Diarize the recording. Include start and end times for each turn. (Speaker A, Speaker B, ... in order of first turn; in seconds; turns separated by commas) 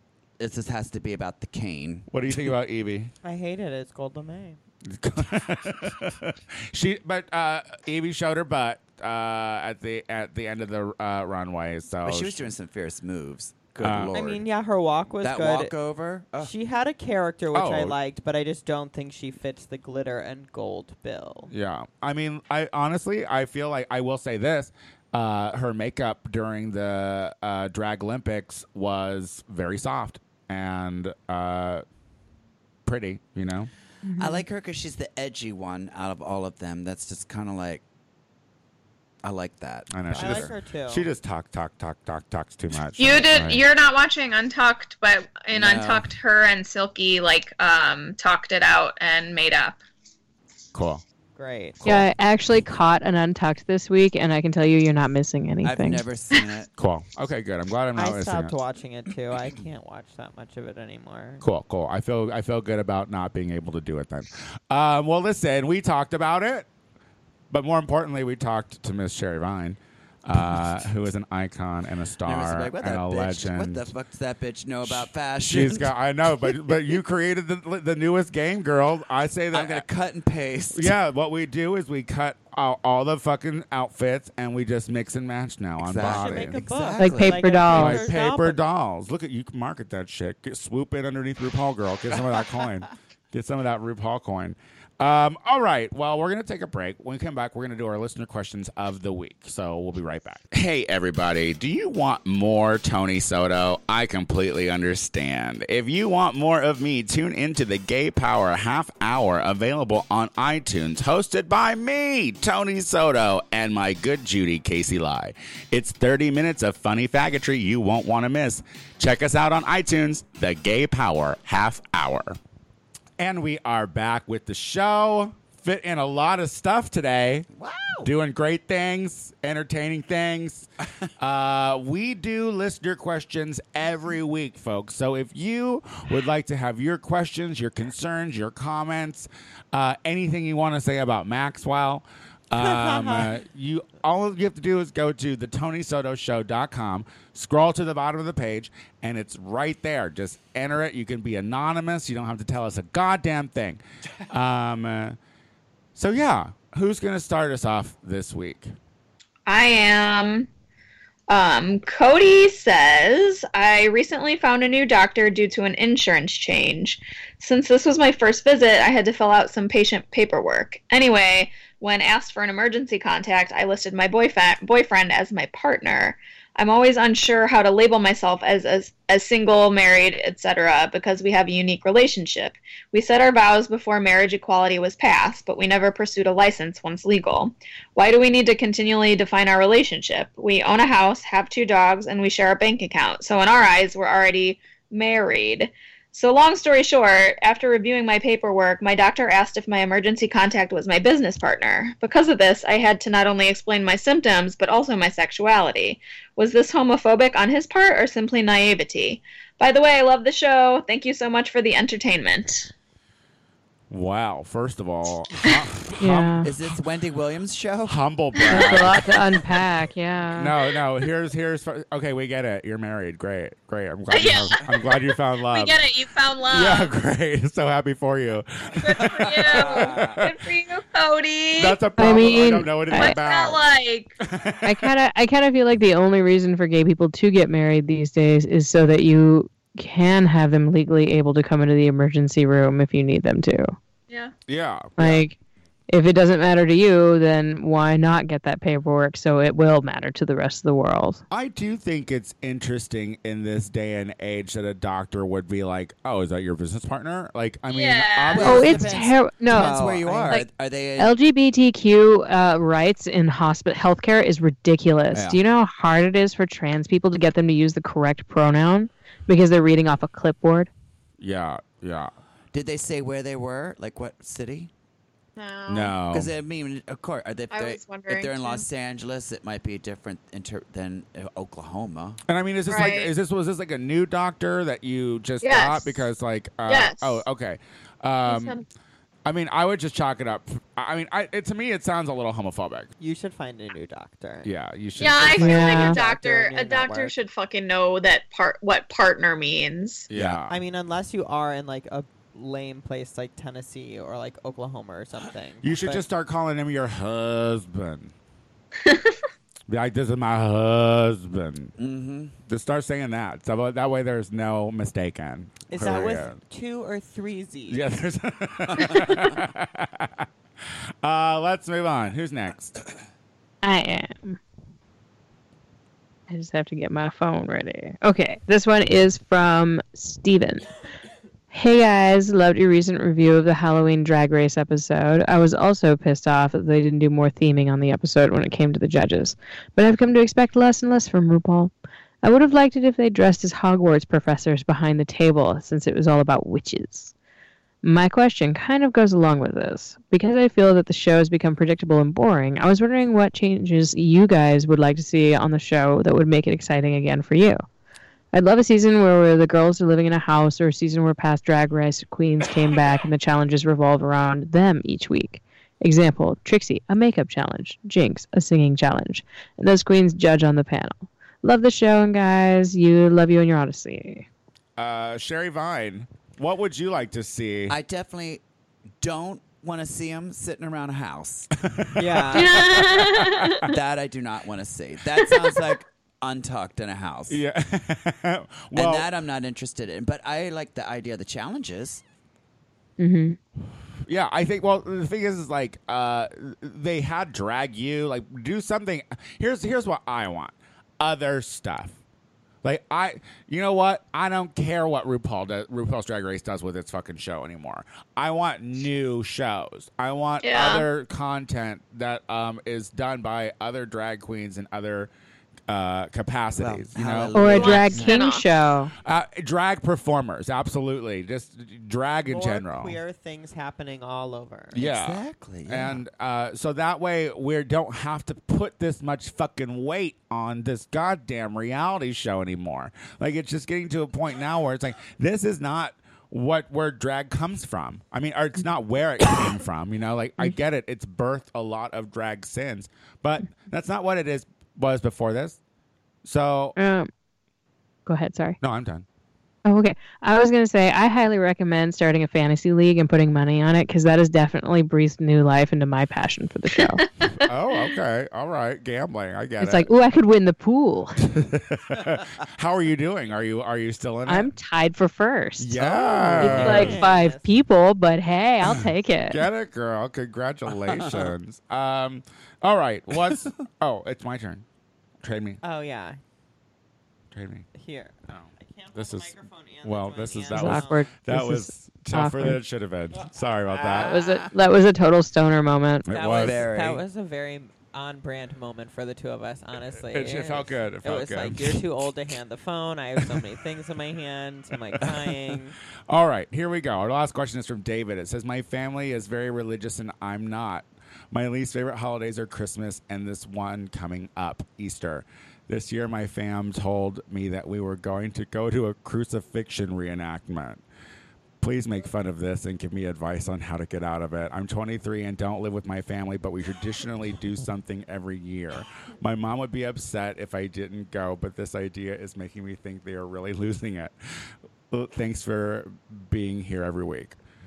Speaker A: 0.4-2.1, Speaker B: 2.1-3.1, Speaker C: 3.2-4.6, Speaker B: 4.9-12.5, Speaker A: 12.0-14.4, Speaker B: 13.8-14.2, Speaker C: 14.1-15.7, Speaker A: 15.2-16.5, Speaker C: 16.4-21.5, Speaker B: 17.5-18.0, Speaker B: 21.5-31.8, Speaker B: 32.9-33.7, Speaker D: 34.1-34.5, Speaker A: 34.2-37.8, Speaker A: 39.2-40.5, Speaker B: 39.9-43.6, Speaker C: 40.1-41.1, Speaker E: 43.0-49.8, Speaker A: 45.5-46.1, Speaker B: 50.7-51.0, Speaker C: 51.4-51.9, Speaker D: 51.8-56.0, Speaker A: 55.6-56.7, Speaker B: 56.8-58.6, Speaker C: 58.0-61.4, Speaker B: 61.4-66.7, Speaker B: 67.5-73.9, Speaker A: 72.2-76.6, Speaker B: 74.8-79.8, Speaker A: 79.5-80.9, Speaker B: 80.7-86.6, Speaker A: 85.8-87.7, Speaker C: 86.0-88.6, Speaker D: 87.0-88.1, Speaker B: 87.7-122.4, Speaker B: 123.2-127.5, Speaker A: 127.5-128.1, Speaker B: 128.0-155.2, Speaker C: 142.6-143.3, Speaker B: 155.9-158.7, Speaker E: 159.5-160.5, Speaker E: 161.3-212.7, Speaker B: 213.9-216.5, Speaker D: 216.0-216.5, Speaker A: 216.4-218.0, Speaker B: 217.9-219.2, Speaker D: 218.5-220.5, Speaker B: 220.4-225.8, Speaker E: 224.1-226.9, Speaker B: 226.5-230.3, Speaker E: 228.8-234.1, Speaker A: 229.6-230.2, Speaker B: 231.6-233.6, Speaker D: 232.0-233.2, Speaker B: 234.2-234.9, Speaker D: 234.6-243.8, Speaker B: 244.5-245.2, Speaker D: 245.0-245.4, Speaker D: 245.9-251.2, Speaker B: 251.3-259.0, Speaker E: 257.7-258.5, Speaker A: 258.3-261.1, Speaker D: 258.4-259.8, Speaker C: 259.5-260.4, Speaker D: 261.0-270.7, Speaker B: 271.2-272.1, Speaker A: 272.5-274.7, Speaker E: 275.4-275.9, Speaker B: 275.7-276.3, Speaker A: 276.1-282.2, Speaker E: 277.5-278.6, Speaker B: 282.3-288.6, Speaker E: 282.7-283.1, Speaker E: 285.4-286.1, Speaker E: 286.7-287.2, Speaker E: 288.3-288.6, Speaker B: 289.2-292.9, Speaker C: 293.0-294.5, Speaker B: 294.4-295.5, Speaker E: 295.0-300.1, Speaker C: 295.2-297.1, Speaker D: 295.4-296.0, Speaker B: 300.1-300.6, Speaker A: 300.1-300.4, Speaker C: 300.5-306.1, Speaker B: 305.6-308.1, Speaker E: 308.8-309.2, Speaker B: 309.7-311.7, Speaker A: 311.8-312.4, Speaker B: 312.5-316.4, Speaker C: 315.7-317.8, Speaker B: 317.7-320.2, Speaker B: 321.0-322.8, Speaker D: 323.6-324.4, Speaker D: 326.3-330.6, Speaker D: 331.5-341.7, Speaker D: 342.2-347.1, Speaker D: 347.8-357.6, Speaker D: 358.3-374.3, Speaker B: 374.8-377.8, Speaker A: 377.7-378.4, Speaker A: 379.0-381.5, Speaker B: 381.6-383.7, Speaker C: 382.0-382.6, Speaker E: 382.3-383.7, Speaker A: 383.6-387.4, Speaker B: 387.3-389.1, Speaker A: 388.7-392.0, Speaker D: 393.0-393.4, Speaker B: 394.1-402.0, Speaker B: 402.6-415.1, Speaker E: 410.4-410.9, Speaker B: 415.7-417.4, Speaker A: 416.6-418.2, Speaker D: 417.3-418.9, Speaker E: 417.5-418.4, Speaker B: 419.0-423.0, Speaker C: 422.3-424.9, Speaker B: 424.7-445.6, Speaker A: 424.8-426.0, Speaker B: 446.2-446.8, Speaker D: 446.8-447.1, Speaker D: 448.1-448.6, Speaker B: 448.6-449.1, Speaker D: 449.6-457.1, Speaker B: 457.3-459.9, Speaker D: 459.6-461.2, Speaker B: 461.2-464.5, Speaker D: 464.3-465.8, Speaker B: 465.6-467.0, Speaker A: 466.0-467.0, Speaker C: 466.3-467.5, Speaker D: 466.4-469.4, Speaker B: 469.3-474.6, Speaker A: 470.9-471.3, Speaker B: 475.2-475.6, Speaker C: 475.6-476.2, Speaker B: 477.3-477.7, Speaker C: 477.8-481.1, Speaker B: 478.3-484.2, Speaker D: 480.5-482.6, Speaker A: 483.9-484.5, Speaker D: 483.9-486.1, Speaker B: 486.1-486.7, Speaker C: 486.1-495.8, Speaker A: 486.3-487.0, Speaker B: 490.0-492.1, Speaker B: 495.0-495.4, Speaker B: 496.1-510.8, Speaker B: 511.6-524.1, Speaker B: 524.9-527.4